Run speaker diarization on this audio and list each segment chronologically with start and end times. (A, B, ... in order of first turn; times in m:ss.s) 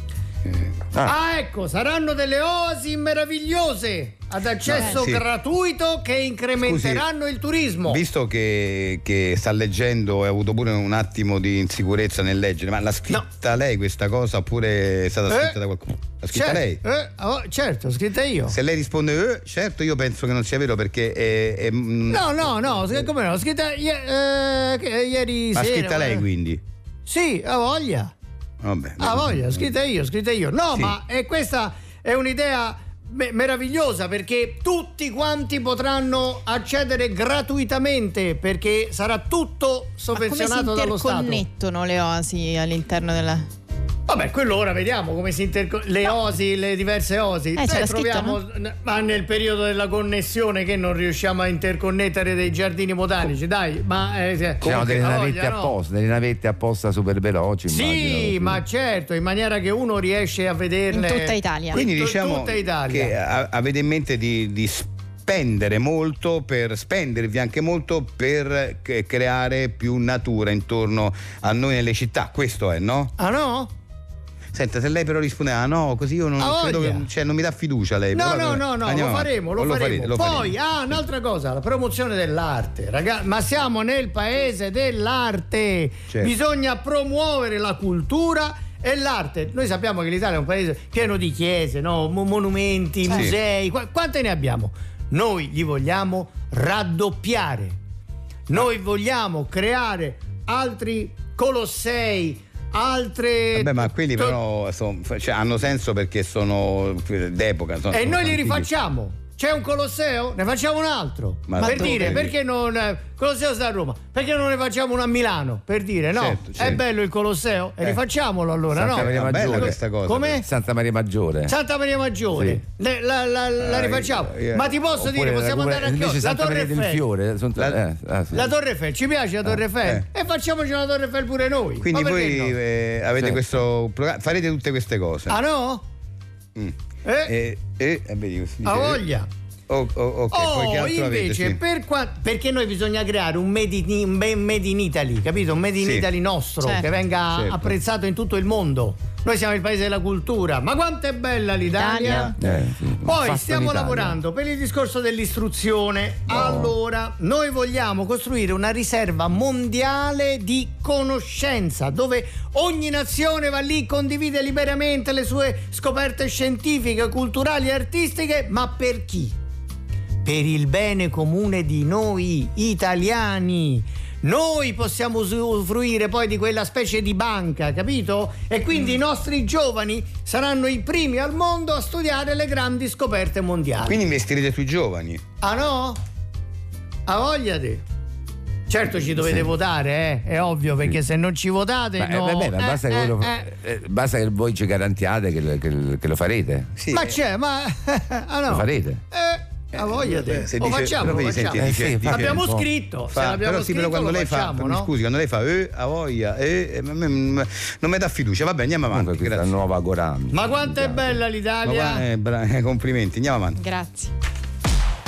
0:00.4-0:00.7 A
0:01.0-0:08.0 B
0:04.6-0:05.2 A
0:04.7-0:05.0 C
0:06.6-0:07.0 A
0:07.9-0:16.8 A
0:15.3-0:15.6 B
0:16.3-0:18.6 B
0:18.5-0:23.0 A
0:22.1-0:26.2 B
0:25.5-0:26.6 A
0:27.0-0:28.1 B
0:28.6-0:29.7 A
0:29.0-0:41.4 B
0:40.1-0:43.5 C
0:44.1-0:55.7 B
0:47.6-0:48.4 C
0:54.6-0:58.6 D
0:57.7-1:03.2 B
1:00.9-1:01.8 C
1:01.7-1:13.1 A
1:13.2-1:13.7 B
1:14.5-1:21.0 A
1:16.4-1:17.1 B
1:18.1-1:37.8 B
1:33.1-1:33.4 A
1:38.5-1:44.4 B
1:43.5-1:48.7 A
1:47.9-2:00.5 B
1:51.5-1:52.3 A
1:56.1-1:56.8 A
1:58.7-1:59.8 D
1:58.8-2:00.4 A
2:00.4-2:01.6 D
2:01.5-2:07.0 B
2:02.4-2:02.6 D
2:03.6-2:04.7 A
2:04.9-2:08.5 D
2:08.3-2:12.6 B
2:09.8-2:10.0 A
2:11.8-2:15.4 A
2:13.2-2:13.5 D
2:15.3-2:15.8 B
2:16.6-2:19.0 A
2:17.0-2:17.3 B
2:18.6-2:19.3 B
2:19.7-2:21.6 A
2:20.3-2:32.3 B
2:25.8-2:26.0 A
2:27.3-2:27.7 A
2:31.7-2:32.3 C
2:32.4-2:34.2 D
2:33.0-2:49.3 B
2:36.3-2:36.7 D
2:50.2-3:04.0 B
3:03.8-3:05.2 A
3:05.4-3:06.0 B
3:07.1-3:07.8 B
3:08.7-3:13.5 B
3:09.2-3:09.5 D
3:12.0-3:16.7 D
3:16.8-3:17.1 A
3:16.9-3:24.9 B
3:18.5-3:19.0 D
3:19.7-3:22.4 A
3:21.5-3:22.7 D
3:23.1-3:29.5 A
3:28.9-3:31.2 D
3:30.3-3:32.0 B
3:31.6-3:33.6 A
3:33.6-3:34.1 C